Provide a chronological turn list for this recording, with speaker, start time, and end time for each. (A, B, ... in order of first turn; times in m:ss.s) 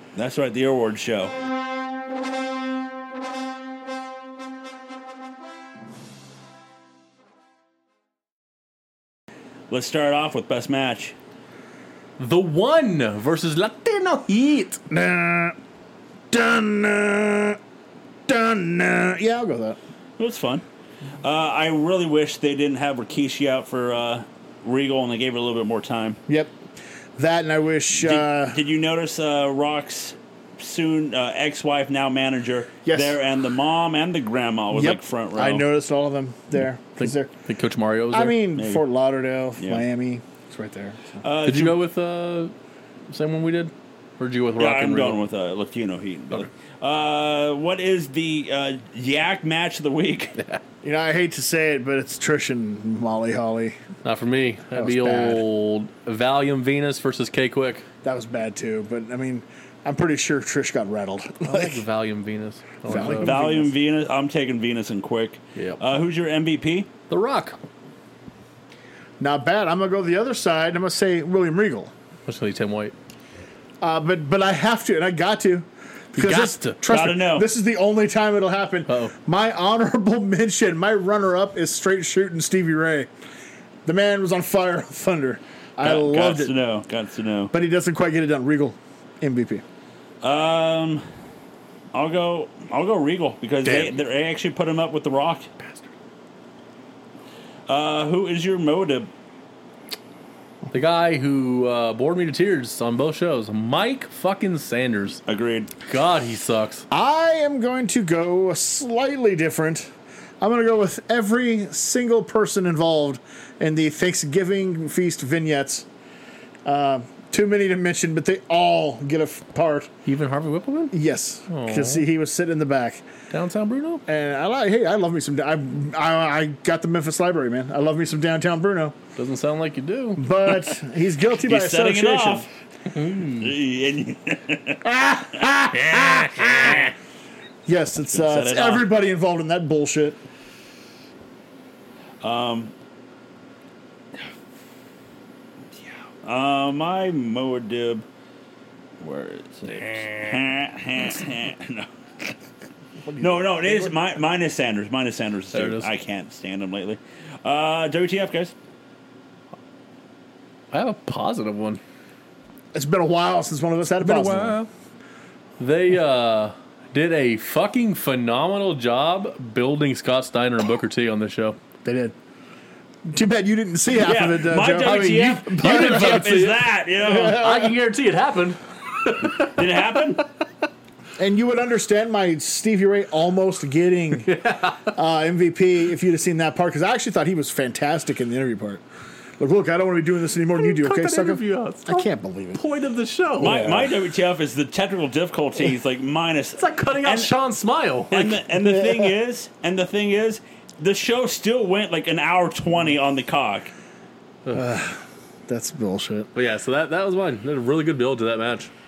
0:00.2-0:01.3 A
0:09.7-0:11.2 A
0:12.2-0:14.8 B
0:14.9-0:15.6 C
0:16.3-0:17.6 C
0:18.3-0:19.8 C
0:20.2-0:20.6 A
0:21.2-0:26.2 A
0:26.3-0:26.6 C
0:27.2-0:28.6 C
0:28.0-0:35.7 A
0:32.8-0:33.2 C
0:34.7-0:37.3 C
0:37.0-0:38.4 B
0:38.1-0:41.2 C
0:38.6-0:38.8 A
0:39.6-0:39.8 A
0:41.2-0:41.8 A
0:41.5-0:42.5 B
0:43.1-0:45.2 B
0:44.6-0:50.4 A
0:50.8-0:53.8 C
0:54.0-0:57.8 B
0:54.8-0:55.4 C
0:58.0-1:01.8 C
1:01.4-1:03.4 B
1:02.9-1:03.7 C
1:03.2-1:06.9 A
1:05.6-1:05.8 B
1:07.1-1:07.6 B
1:09.2-1:11.9 C
1:12.3-1:12.9 B
1:13.8-1:23.1 C
1:16.2-1:17.1 B
1:16.9-1:17.5 A
1:18.9-1:19.1 B
1:23.9-1:26.6 C
1:25.8-1:27.5 A
1:27.5-1:29.6 C
1:30.2-1:31.0 A
1:31.9-1:35.5 A
1:33.6-1:34.0 B
1:37.7-1:39.1 A
1:40.7-1:45.2 B
1:45.3-1:45.7 A
1:45.9-1:46.8 B
1:46.9-1:55.9 C
1:56.6-1:59.9 C
2:00.1-2:01.0 B
2:00.9-2:03.0 C
2:01.5-2:02.0 B
2:03.3-2:04.0 B
2:04.1-2:09.0 C
2:09.2-2:10.2 B
2:10.2-2:12.5 C
2:11.4-2:12.5 A
2:12.9-2:13.6 B
2:13.2-2:14.8 A
2:14.8-2:16.9 C
2:15.8-2:16.9 A
2:17.7-2:20.2 C
2:18.1-2:18.9 A
2:22.2-2:22.7 A
2:26.2-2:28.0 A
2:29.0-2:32.3 A
2:33.2-2:38.5 A
2:35.5-2:35.9 B
2:40.7-2:41.8 B
2:42.7-2:44.6 C
2:44.0-2:44.7 B
2:45.6-2:51.6 B
2:51.8-2:52.2 C
2:53.1-2:56.5 C
2:54.0-2:57.4 A
2:55.5-3:00.2 B
2:57.0-2:57.8 C
2:59.6-3:00.2 A
3:01.2-3:04.3 C
3:04.3-3:04.8 B
3:04.8-3:08.8 C
3:09.4-3:12.6 C
3:10.6-3:13.7 B
3:13.4-3:17.3 A
3:13.4-3:14.0 C
3:16.6-3:18.4 B
3:18.1-3:23.7 A
3:18.6-3:19.2 C
3:24.5-3:26.3 C
3:26.4-3:28.7 B